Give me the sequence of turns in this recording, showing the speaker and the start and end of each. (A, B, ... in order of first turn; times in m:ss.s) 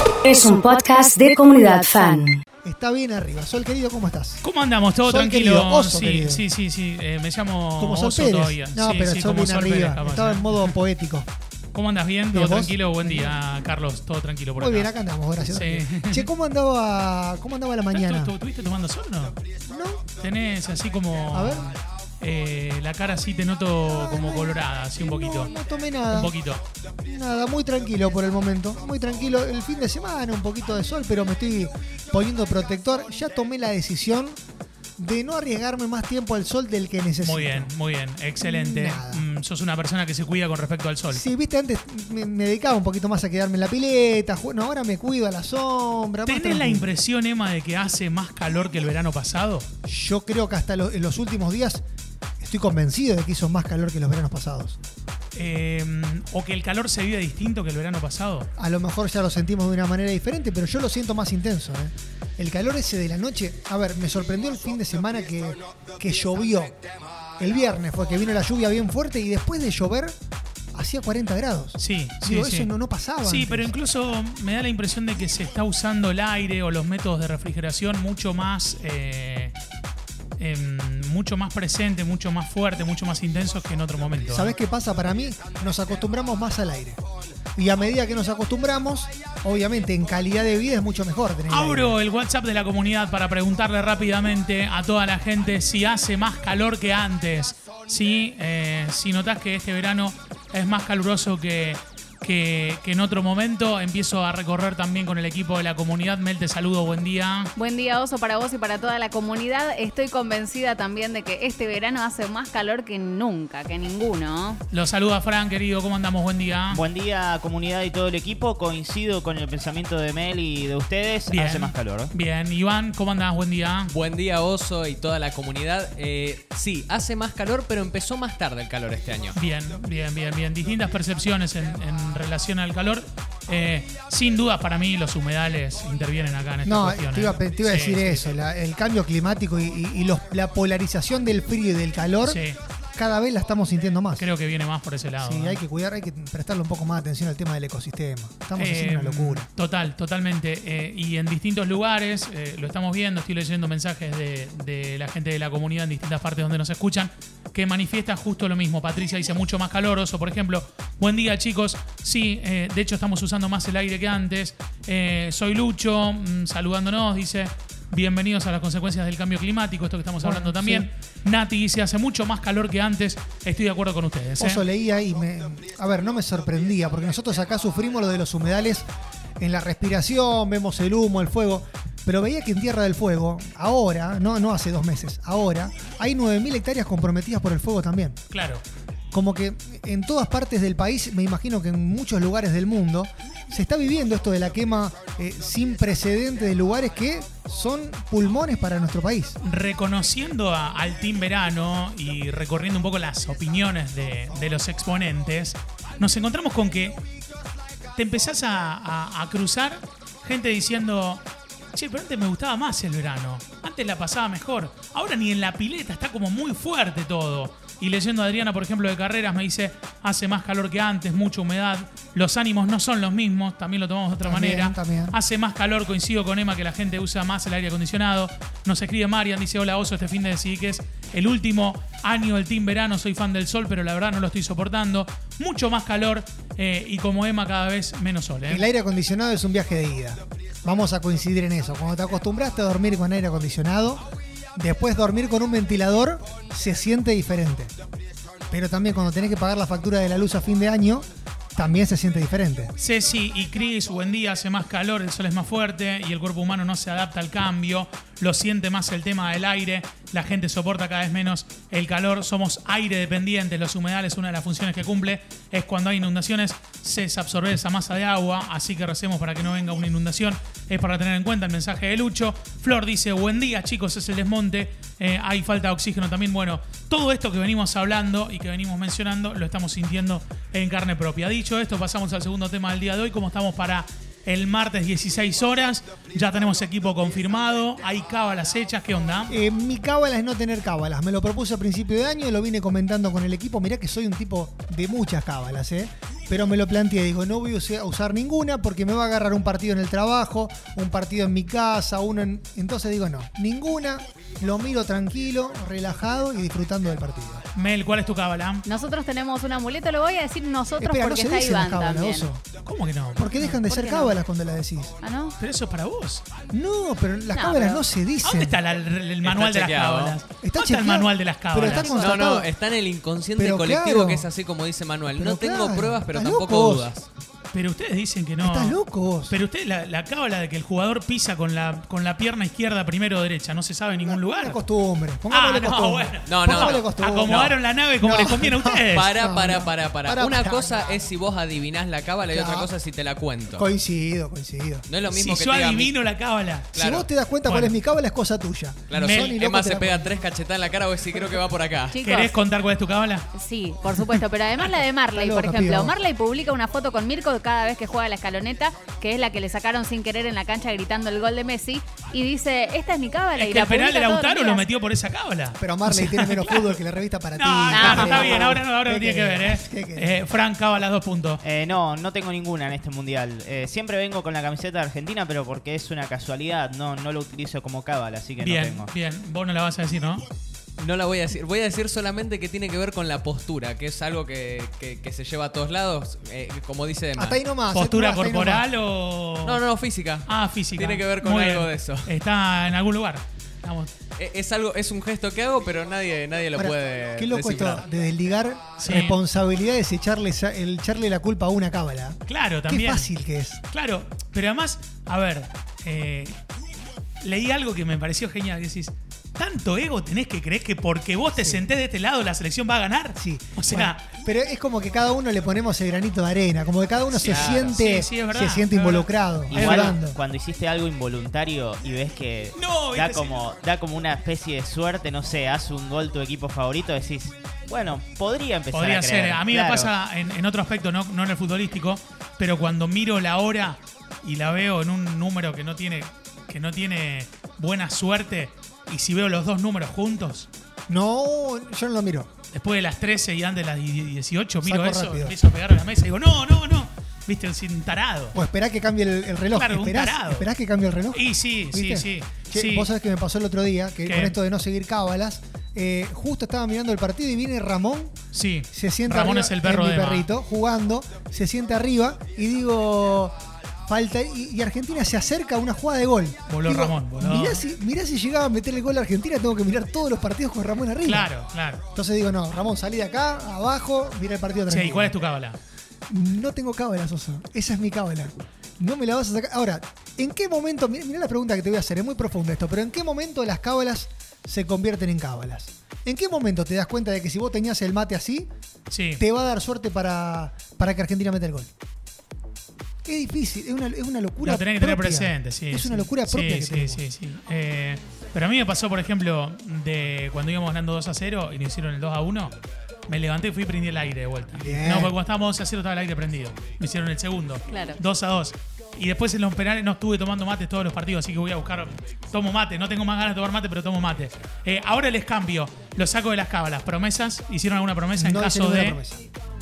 0:00.2-0:02.4 A
0:02.6-0:04.4 B
0:04.4-0:10.8 C
0:05.1-0:06.4 B
0:07.8-0:11.3 B
0:11.7-0:14.9 C
0:12.3-0:13.4 B
0:14.6-0:18.3 B
0:15.4-0:16.3 C
0:17.9-0:19.4 C
0:19.7-0:20.0 B
0:20.2-0:25.5 C
0:21.3-0:21.7 B
0:23.9-0:26.3 B
0:26.1-0:26.6 C
0:27.0-0:34.4 B
0:35.0-0:37.7 B
0:37.2-0:41.2 C
0:38.4-0:39.3 B
0:41.1-0:46.9 B
0:46.3-0:49.7 C
0:49.8-0:51.8 B
0:52.4-0:54.8 B
0:55.4-0:58.5 C
0:58.6-1:06.8 B
1:07.4-1:10.2 B
1:10.7-1:13.7 B
1:11.8-1:12.7 C
1:13.2-1:19.6 C
1:20.4-1:24.5 C
1:24.3-1:27.0 B
1:27.6-1:32.0 B
1:31.5-1:47.5 C
1:47.6-1:54.6 D
1:54.7-1:56.8 C
1:56.7-2:02.1 E
2:01.3-2:03.9 C
2:03.9-2:09.4 F
2:09.4-2:18.3 C
2:16.6-2:22.4 B
2:22.2-2:22.6 C
2:23.0-2:24.3 B
2:24.2-2:25.6 C
2:25.2-2:29.5 B
2:28.6-2:54.6 C
2:50.2-2:50.9 B
2:54.4-2:58.9 B
2:59.4-3:08.2 B
3:08.3-3:08.6 C
3:09.1-3:19.4 B
3:19.4-3:27.0 C
3:28.0-3:31.2 C
3:31.7-3:58.7 C
3:44.2-3:45.2 B
3:58.4-4:04.0 B
4:04.6-4:07.7 B
4:08.5-4:12.7 B
4:12.8-4:49.4 C
4:49.3-5:07.4 B
5:07.6-5:08.7 C
5:08.6-5:12.3 D
5:10.8-5:12.4 B
5:12.6-5:13.5 C
5:13.2-5:14.9 B
5:13.5-5:14.2 D
5:15.0-5:15.4 D
5:15.4-5:16.2 C
5:16.5-5:18.6 B
5:17.3-5:17.8 D
5:18.2-5:22.0 C
5:19.2-5:20.2 F
5:20.4-5:22.5 B
5:21.7-5:27.1 F
5:23.4-5:24.3 B
5:25.2-5:26.9 B
5:27.5-5:34.6 C
5:28.4-5:29.4 B
5:34.0-5:40.9 B
5:35.3-5:39.1 C
5:36.3-5:37.5 F
5:38.9-5:43.6 F
5:42.3-5:42.7 B
5:43.6-5:44.8 B
5:44.9-5:46.0 F
5:45.1-5:46.8 C
5:46.8-5:47.1 F
5:46.8-5:50.1 B
5:47.4-5:47.8 C
5:48.9-5:52.0 F
5:49.0-5:49.2 C
5:51.9-5:52.4 D
5:52.0-5:53.3 C
5:53.3-6:04.7 D
5:55.2-5:56.0 B
6:03.4-6:06.8 C
6:05.6-6:10.2 B
6:07.4-6:11.4 C
6:07.7-6:08.5 D
6:11.4-6:18.9 E
6:18.4-6:20.3 C
6:20.8-6:27.4 F
6:27.2-6:28.7 B
6:27.7-6:29.6 C
6:29.4-6:32.1 F
6:30.3-6:33.9 C
6:34.2-6:37.8 F
6:36.6-6:43.6 B
6:38.8-6:39.2 C
6:42.3-6:43.1 C
6:43.7-6:46.4 C
6:47.2-6:54.0 C
6:51.3-6:51.7 B
6:53.2-7:00.2 B
6:57.1-7:00.0 C
6:57.3-6:57.8 F
6:59.5-7:09.9 E
7:02.6-7:03.4 C
7:08.7-7:20.5 C
7:20.9-7:22.3 B
7:22.5-7:28.4 C
7:24.6-7:25.4 B
7:28.3-7:38.1 B
7:29.5-7:30.5 C
7:31.1-7:32.9 C
7:34.1-7:34.4 C
7:38.3-7:40.3 C
7:38.7-7:51.3 B
7:46.5-7:47.6 C
7:51.0-7:51.8 C
7:51.9-7:55.2 B
7:54.7-7:55.6 C
7:56.1-8:08.5 B
8:08.9-8:09.2 C
8:09.2-8:11.7 B
8:13.0-8:17.1 B
8:14.4-8:22.6 C
8:23.1-8:39.0 C
8:24.6-8:25.2 B
8:27.7-8:28.0 D
8:38.2-8:39.2 B